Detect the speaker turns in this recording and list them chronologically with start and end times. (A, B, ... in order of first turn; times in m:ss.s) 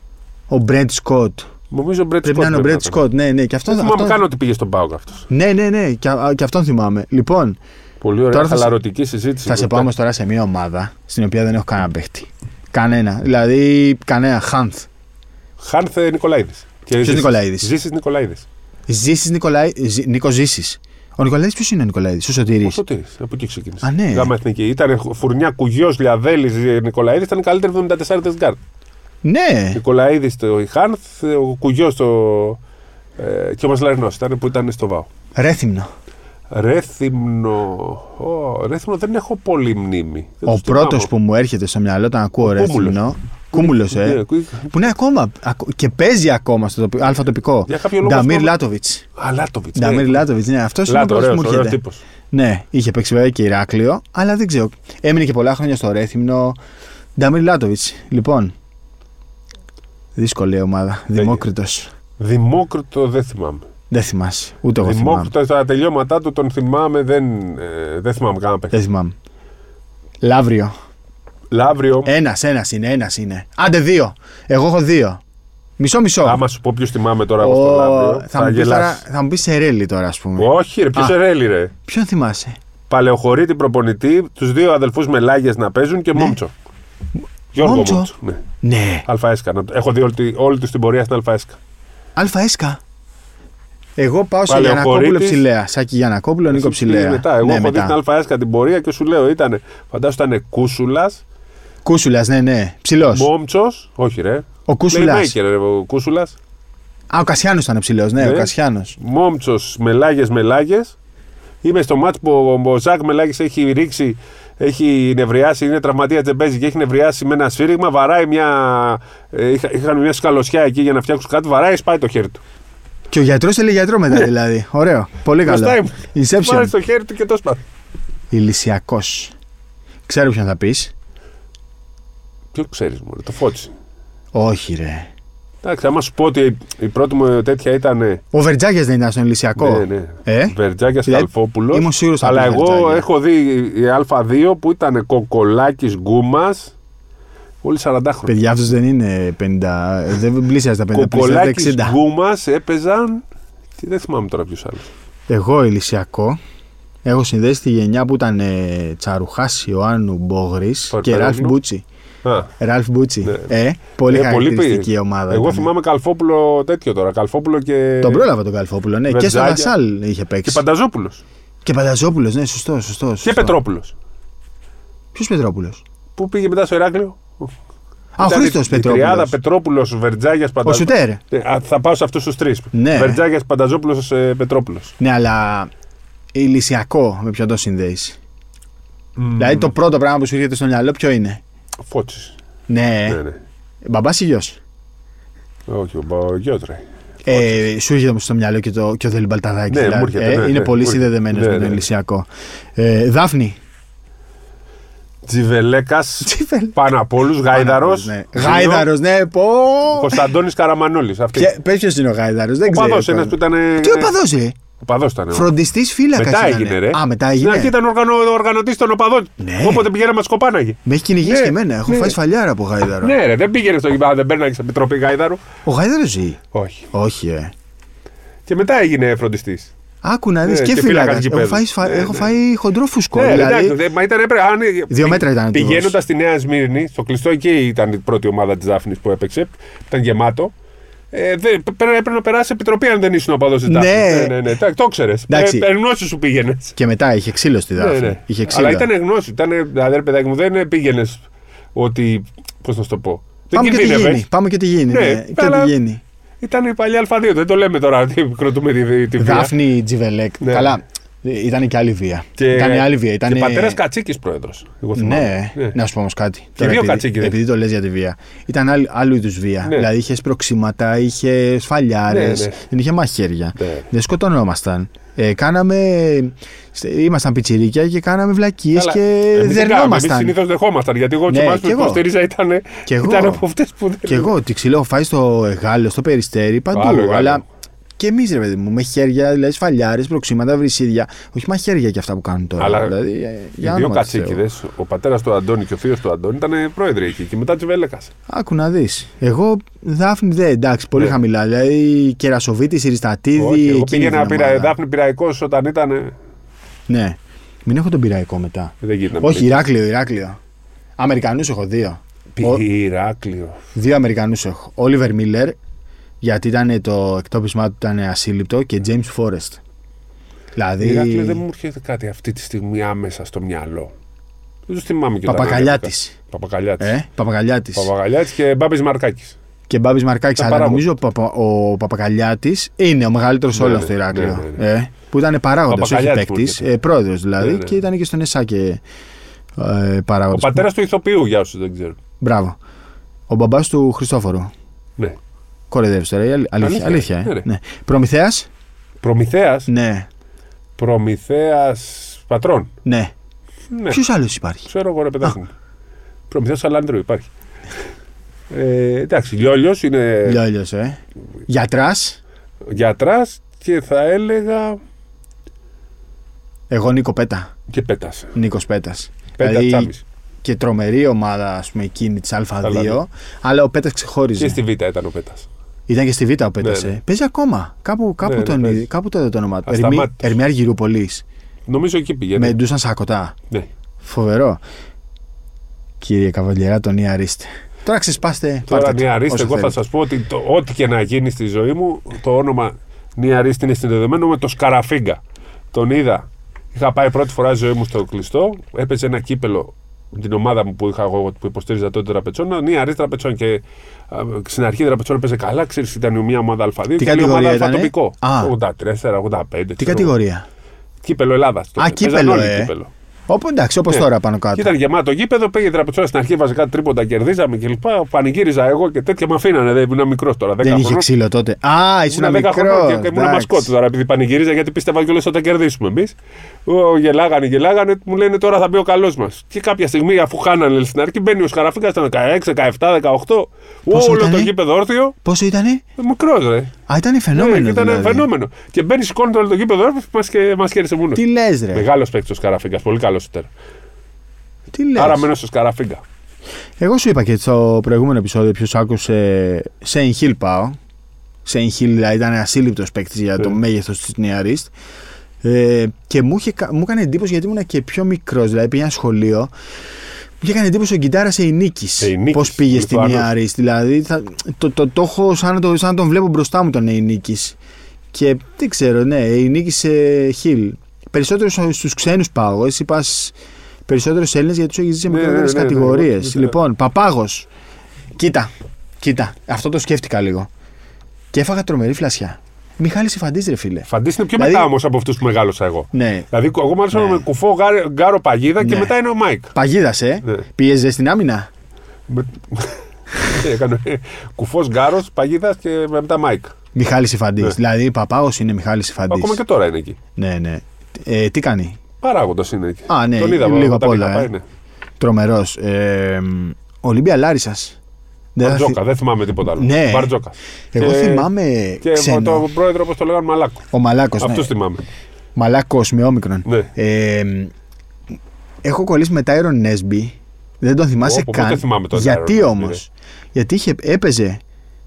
0:00.5-0:01.5 A
0:01.7-0:03.0 B
0:02.2-0:04.2 A
0:03.7-0:05.3 B
0:05.3-0:07.6 A
0:08.0-0:09.9 B
0:08.3-0:08.8 A
0:09.5-0:14.9 A
0:15.6-0:18.5 B
0:17.0-0:17.7 A
0:18.9-0:22.8 A
0:22.6-0:28.6 B
0:23.8-0:24.3 A
0:29.2-0:29.8 A
0:29.7-0:32.6 B
0:33.2-0:35.1 B
0:35.4-0:35.9 A
0:36.5-0:41.1 B
0:40.4-0:49.0 A
0:42.4-0:43.0 B
0:43.5-0:44.8 B
0:47.7-0:48.6 B
0:49.2-0:50.2 B
0:49.8-0:51.8 A
0:50.9-0:52.0 B
0:52.3-0:56.6 A
0:57.2-0:58.6 A
1:00.2-1:01.9 A
1:01.2-1:01.4 B
1:02.2-1:03.7 B
1:03.9-1:05.3 A
1:04.8-1:08.8 B
1:08.7-1:09.2 A
1:10.2-1:10.7 A
1:11.5-1:12.1 B
1:12.0-1:15.2 A
1:15.8-1:16.4 A
1:16.2-1:19.0 B
1:17.4-1:21.2 A
1:20.4-1:21.7 B
1:21.9-1:22.6 A
1:22.9-1:26.5 B
1:27.5-1:28.4 B
1:27.6-1:29.1 A
1:29.1-1:31.6 B
1:32.2-1:32.8 A
1:34.0-1:38.0 A
1:34.5-1:35.4 B
1:36.5-1:41.2 B
1:41.8-1:43.3 A
1:43.1-1:46.4 B
1:44.7-1:45.4 A
1:47.1-1:49.0 A
1:48.2-1:51.0 B
1:51.6-2:02.4 B
2:03.1-2:06.7 A
2:05.4-2:07.6 B
2:08.3-2:09.3 A
2:10.1-2:10.9 A
2:12.5-2:13.7 B
2:14.3-2:15.1 A
2:15.6-2:18.2 B
2:18.3-2:23.1 A
2:19.6-2:26.8 B
2:27.6-2:28.4 B
2:28.3-2:32.0 A
2:30.9-2:33.2 B
2:33.8-2:34.9 B
2:35.3-2:36.4 A
2:37.0-2:41.8 A
2:40.9-2:41.6 B
2:42.2-2:42.5 B
2:42.6-2:45.7 A
2:43.2-2:43.5 B
2:44.1-2:48.3 B
2:48.0-2:50.6 A
2:49.1-2:49.7 B
2:50.4-2:51.2 B
2:51.6-2:53.6 A
2:53.2-2:53.9 B
2:55.2-2:55.8 A
2:56.2-2:57.5 B
2:58.2-2:59.4 A
2:58.2-3:05.0 B
3:00.6-3:01.2 A
3:02.7-3:03.2 A
3:05.0-3:05.7 A
3:06.3-3:08.2 A
3:09.2-3:09.7 B
3:09.4-3:11.4 A
3:11.9-3:12.4 B
3:12.7-3:13.2 A
3:13.1-3:13.4 B
3:13.8-3:14.6 A
3:15.7-3:17.7 B
3:17.3-3:23.6 A
3:19.7-3:21.8 B
3:25.3-3:28.9 B
3:26.2-3:26.8 A
3:27.5-3:30.3 A
3:29.9-3:31.5 B
3:31.3-3:34.6 A
3:32.7-3:34.2 B
3:34.8-3:35.5 B
3:35.3-3:37.7 A
3:36.1-3:42.2 B
3:39.4-3:39.9 A
3:40.8-3:43.2 A
3:43.0-3:45.4 B
3:45.6-3:46.4 A
3:46.5-3:46.9 B
3:46.9-3:47.5 A
3:48.5-3:49.7 B
3:50.0-3:53.8 A
3:50.4-3:52.3 B
3:53.1-4:00.5 B
3:54.9-3:56.0 A
4:01.1-4:06.8 B
4:03.6-4:04.4 A
4:05.3-4:05.7 A
4:06.8-4:08.9 A
4:07.8-4:11.2 B
4:11.8-4:14.2 B
4:13.5-4:16.0 A
4:14.9-4:15.8 B
4:16.4-4:19.6 B
4:19.2-4:23.8 A
4:20.4-4:20.7 B
4:22.4-4:25.8 B
4:25.0-4:40.4 A
4:26.6-4:27.4 B
4:29.6-4:29.9 B
4:32.1-4:32.6 B
4:33.6-4:33.8 B
4:38.8-4:44.3 B
4:41.3-4:42.0 A
4:42.9-4:43.4 A
4:44.1-4:47.4 A
4:46.7-4:47.4 B
4:48.0-4:54.4 A
4:52.6-4:53.0 B
4:53.6-4:58.1 B
4:58.3-5:04.8 A
5:03.4-5:06.1 B
5:06.9-5:10.4 A
5:08.8-5:09.6 B
5:11.0-5:12.6 A
5:12.4-5:13.6 B
5:13.8-5:15.6 A
5:16.2-5:19.6 A
5:20.6-5:21.4 A
5:20.8-5:23.9 B
5:24.7-5:27.0 B
5:25.3-5:26.2 A
5:26.8-5:27.9 A
5:27.8-5:29.4 B
5:29.7-5:38.8 A
5:30.4-5:30.9 B
5:33.6-5:34.6 B
5:35.7-5:36.7 B
5:37.4-5:37.8 B
5:39.6-5:40.6 A
5:40.3-5:42.0 B
5:42.2-5:42.6 A
5:43.3-5:44.5 A
5:45.7-5:48.5 A
5:46.6-5:47.5 B
5:49.0-5:49.7 B
5:49.7-5:50.1 A
5:50.8-5:52.7 B
5:52.8-5:53.1 A
5:53.7-5:54.0 B
5:53.9-5:54.7 A
5:54.6-5:55.5 B
5:56.3-5:57.3 B
5:58.5-6:00.4 B
6:00.3-6:02.2 A
6:02.7-6:04.8 B
6:06.7-6:07.5 A
6:07.7-6:08.3 B
6:08.4-6:09.9 A
6:09.4-6:10.0 B
6:10.4-6:14.6 A
6:12.6-6:13.0 B
6:14.4-6:15.5 B
6:15.9-6:21.2 A
6:16.6-6:17.0 B
6:18.2-6:18.9 B
6:19.7-6:20.4 B
6:21.7-6:22.6 B
6:22.4-6:23.4 A
6:24.0-6:24.6 A
6:26.0-6:29.8 A
6:28.7-6:35.2 B
6:35.7-6:50.1 B
6:47.0-6:48.5 A
6:49.8-6:50.5 A
6:51.0-6:52.9 B
6:51.8-6:52.7 A
6:53.3-6:54.7 A
6:53.9-7:01.1 B
7:00.6-7:03.7 A
7:02.1-7:15.2 B
7:13.9-7:14.5 A
7:15.2-7:15.8 A
7:16.0-7:16.7 B
7:16.9-7:18.3 A
7:17.3-7:23.5 B
7:21.2-7:21.9 A
7:24.7-7:25.3 A
7:25.0-7:26.0 B
7:26.8-7:30.8 A
7:31.4-7:34.7 A
7:35.4-7:39.5 A
7:40.4-7:47.6 A
7:42.0-7:43.3 B
7:48.1-7:53.4 A
7:53.9-7:57.5 A
7:55.1-7:56.6 B
7:58.2-8:00.5 A
8:01.3-8:04.7 A
8:03.9-8:09.5 B
8:05.9-8:06.3 A
8:06.9-8:07.3 A
8:08.6-8:08.9 A
8:09.5-8:11.5 A
8:12.1-8:16.6 B
8:16.8-8:19.4 A
8:19.1-8:20.0 B
8:20.2-8:21.8 A
8:22.0-8:24.4 B
8:22.9-8:24.3 A
8:25.0-8:27.8 A
8:28.4-8:28.8 A
8:28.4-8:31.3 B
8:29.5-8:30.1 A
8:30.7-8:32.5 A
8:31.8-8:33.7 B
8:33.7-8:34.5 A
8:34.2-8:34.8 B
8:35.4-8:37.5 A
8:36.4-8:36.7 B
8:38.6-8:44.4 A
8:41.0-8:42.8 B